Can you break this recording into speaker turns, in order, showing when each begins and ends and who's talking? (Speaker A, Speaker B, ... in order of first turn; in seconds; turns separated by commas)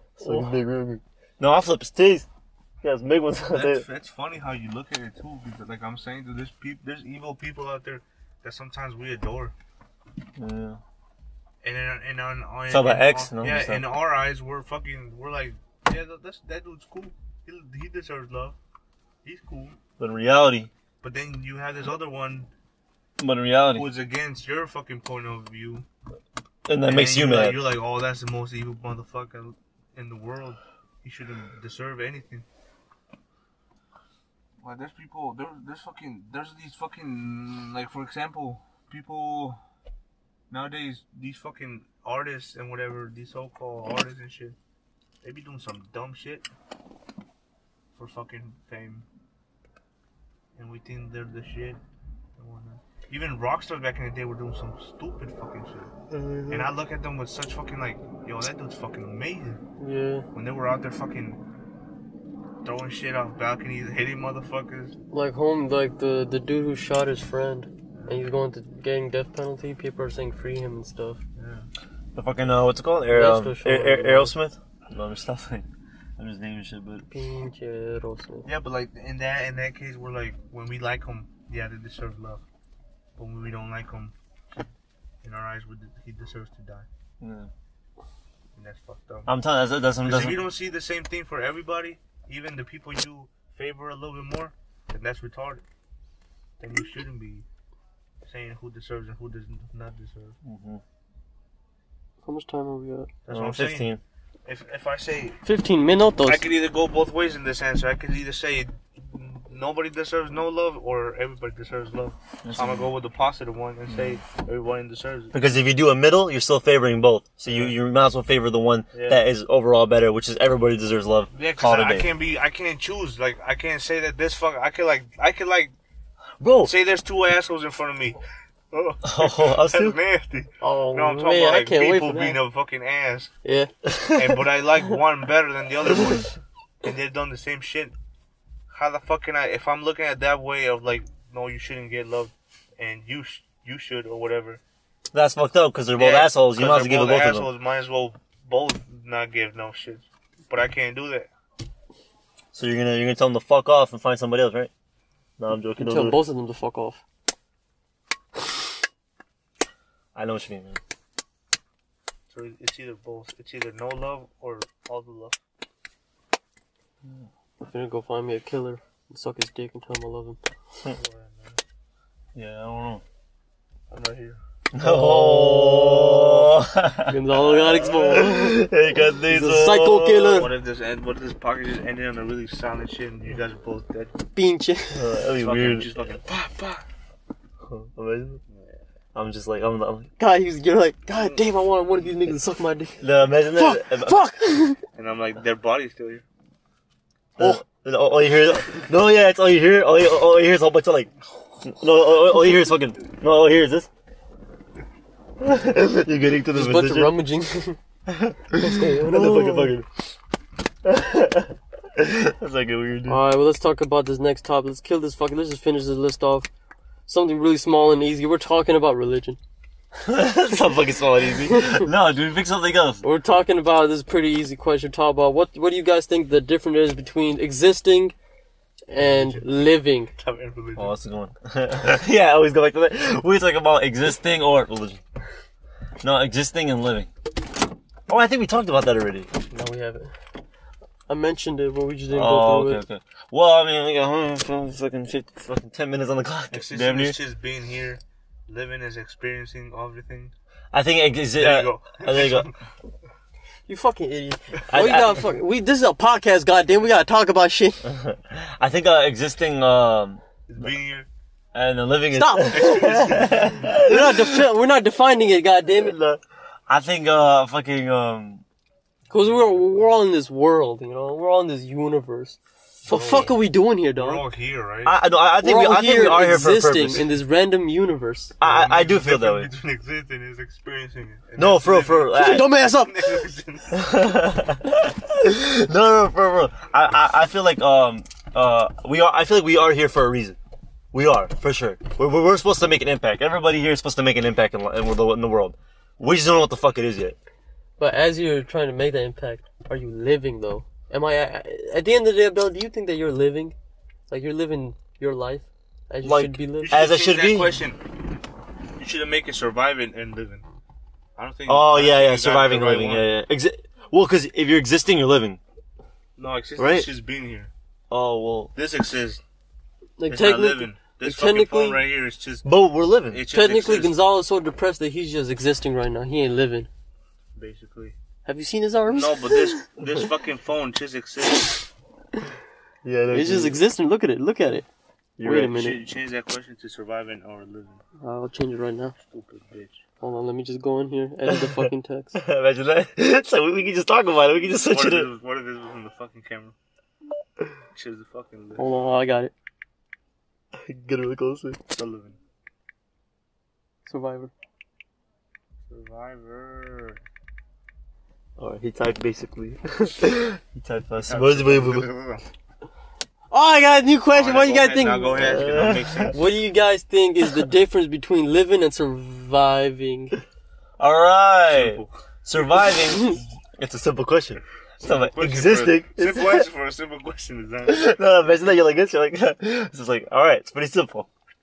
Speaker A: 0.2-2.3, Speaker B: 0.2-0.6, Speaker A: 2.8-3.8, Speaker C: 3.5-9.5, Speaker A: 10.4-10.8, Speaker C: 11.6-18.6, Speaker A: 12.7-13.8, Speaker C: 19.2-19.8, Speaker A: 20.0-20.7, Speaker C: 21.0-22.5, Speaker A: 23.2-23.9, Speaker C: 23.7-25.9, Speaker A: 26.7-27.6, Speaker C: 26.8-32.4, Speaker C: 34.6-39.6, Speaker C: 40.5-44.5, Speaker C: 45.2-46.5, Speaker C: 47.9-49.0, Speaker C: 50.6-51.8, Speaker C: 52.4-55.9, Speaker B: 56.1-56.6, Speaker C: 56.5-59.6, Speaker B: 59.8-60.2, Speaker C: 60.3-61.4, Speaker C: 62.6-64.9, Speaker B: 65.1-71.2, Speaker C: 67.9-68.2, Speaker C: 71.4-71.7, Speaker A: 72.1-75.7, Speaker B: 73.1-74.3, Speaker A: 76.2-77.0, Speaker B: 77.1-78.5, Speaker C: 78.5-82.4, Speaker C: 83.2-84.7, Speaker C: 85.2-86.9, Speaker A: 87.2-87.5, Speaker C: 88.5-89.3, Speaker A: 89.3-90.4, Speaker C: 90.0-95.6, Speaker C: 96.6-97.5, Speaker C: 98.2-100.3, Speaker A: 100.4-100.8, Speaker B: 102.2-103.1, Speaker C: 103.2-103.9, Speaker A: 103.3-104.0, Speaker C: 104.5-105.4, Speaker B: 105.4-106.4, Speaker C: 106.2-115.4, Speaker A: 112.4-112.9, Speaker A: 113.9-114.2, Speaker A: 115.3-122.1, Speaker C: 117.5-117.8, Speaker C: 118.9-119.2, Speaker C: 121.3-125.7, Speaker A: 126.4-126.7, Speaker C: 126.6-128.2, Speaker C: 128.7-133.3, Speaker A: 129.0-130.0, Speaker B: 130.6-132.4, Speaker B: 133.4-133.7, Speaker A: 133.8-134.4, Speaker C: 134.1-136.3, Speaker C: 136.8-137.9, Speaker C: 138.7-144.6, Speaker A: 145.1-147.5, Speaker C: 145.9-151.3, Speaker A: 152.5-154.7, Speaker A: 155.4-156.2, Speaker B: 155.8-157.0, Speaker A: 160.1-160.8, Speaker C: 162.3-165.4, Speaker B: 167.6-170.4, Speaker C: 170.8-171.6, Speaker A: 172.3-173.0, Speaker C: 173.9-174.4, Speaker A: 174.7-180.4, Speaker B: 174.8-176.4, Speaker B: 177.1-178.7, Speaker B: 179.2-180.5, Speaker C: 180.2-184.1, Speaker B: 184.3-185.1, Speaker A: 184.9-185.9, Speaker C: 185.4-186.8, Speaker A: 187.7-188.4, Speaker C: 188.5-188.8, Speaker A: 189.1-190.1, Speaker B: 190.2-193.0, Speaker A: 193.0-194.2, Speaker B: 193.5-194.8, Speaker C: 194.9-196.2, Speaker A: 197.4-201.1, Speaker A: 201.6-203.9, Speaker A: 205.4-207.1, Speaker B: 206.5-207.8, Speaker A: 208.1-209.9, Speaker B: 208.5-209.7, Speaker A: 210.8-213.2, Speaker B: 213.1-216.5, Speaker B: 217.1-219.4, Speaker A: 220.0-223.0, Speaker B: 221.4-221.9, Speaker B: 223.0-228.1, Speaker B: 228.9-230.1, Speaker C: 229.0-229.6, Speaker C: 230.2-230.9, Speaker A: 230.8-235.0, Speaker A: 236.0-237.1, Speaker A: 238.1-239.3, Speaker B: 239.5-240.1, Speaker B: 241.1-242.8, Speaker A: 242.1-247.2, Speaker C: 246.5-250.3, Speaker A: 250.7-252.5, Speaker C: 251.4-252.5, Speaker B: 253.7-257.8, Speaker A: 254.7-255.3, Speaker A: 257.8-260.2, Speaker C: 260.5-261.1, Speaker A: 261.5-264.4, Speaker B: 262.1-265.9, Speaker C: 262.5-263.7, Speaker A: 265.8-268.4, Speaker B: 269.1-274.2, Speaker C: 272.9-273.3, Speaker C: 273.9-274.9, Speaker A: 274.8-277.1, Speaker B: 275.4-278.3, Speaker A: 278.4-279.5, Speaker C: 278.4-283.8, Speaker A: 281.4-282.5, Speaker B: 282.1-283.2, Speaker A: 283.7-290.4, Speaker A: 290.9-297.2, Speaker B: 297.8-303.5, Speaker B: 304.1-306.8, Speaker A: 306.0-307.5, Speaker C: 306.6-307.8, Speaker C: 308.8-310.4, Speaker C: 311.2-313.1, Speaker A: 311.5-315.4, Speaker C: 316.2-317.5, Speaker A: 316.6-316.9, Speaker A: 317.9-318.5, Speaker C: 318.6-319.2, Speaker B: 320.0-321.8, Speaker C: 320.1-322.4, Speaker A: 322.4-323.2, Speaker C: 323.1-323.9, Speaker B: 323.3-326.7, Speaker C: 327.4-327.9, Speaker B: 328.2-329.6, Speaker C: 328.9-331.6, Speaker A: 332.8-333.6, Speaker B: 333.1-334.6, Speaker A: 335.2-335.6, Speaker B: 335.2-335.8, Speaker C: 335.5-337.8, Speaker B: 338.0-338.9, Speaker C: 339.0-339.8, Speaker B: 340.0-342.2, Speaker A: 341.3-345.1, Speaker C: 344.6-346.5, Speaker C: 347.7-348.7, Speaker B: 348.6-349.3, Speaker A: 350.5-351.6, Speaker C: 351.7-352.2, Speaker B: 353.9-354.3, Speaker C: 355.7-357.0, Speaker A: 358.4-361.9, Speaker C: 361.1-362.2, Speaker B: 363.3-365.4, Speaker C: 364.1-366.2, Speaker A: 365.2-366.1, Speaker B: 366.1-370.2, Speaker A: 370.8-376.5, Speaker C: 371.5-371.9, Speaker C: 374.8-377.9, Speaker A: 377.6-381.1